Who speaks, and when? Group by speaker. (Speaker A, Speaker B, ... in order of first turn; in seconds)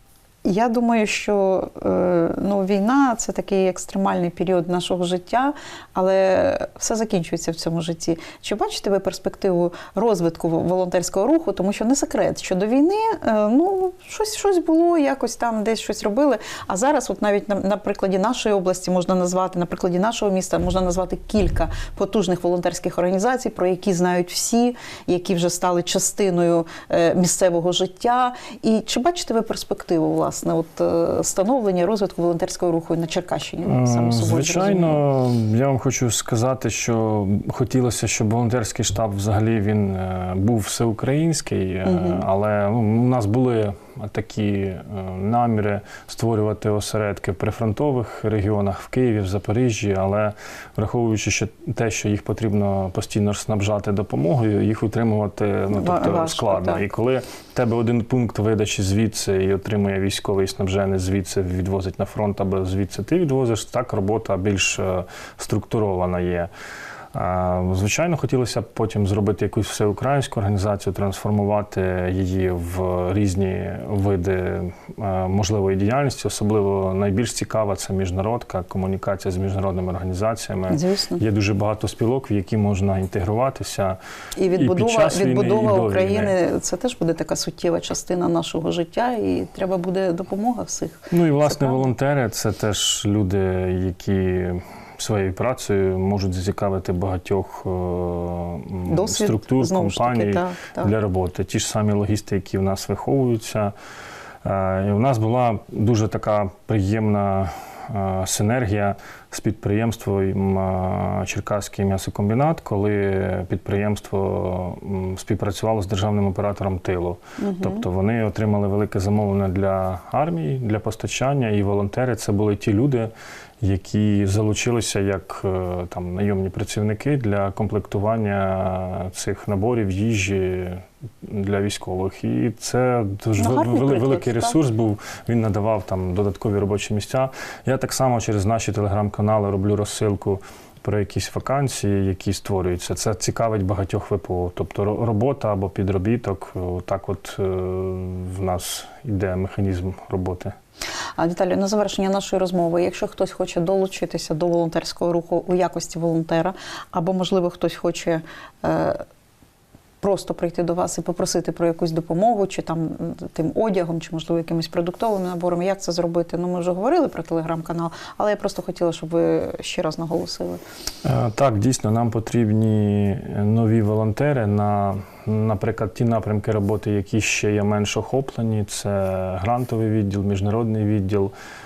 Speaker A: 0.4-35.0, 41.9-42.2, 55.7-56.8, 80.7-81.2, 84.4-91.8, 98.9-100.9, 117.4-117.8, 133.4-134.6, 151.2-159.0, 160.0-170.6
Speaker B: 33.6-66.5, 67.1-84.0, 84.5-86.3, 91.1-103.7, 104.4-150.5, 171.0-181.3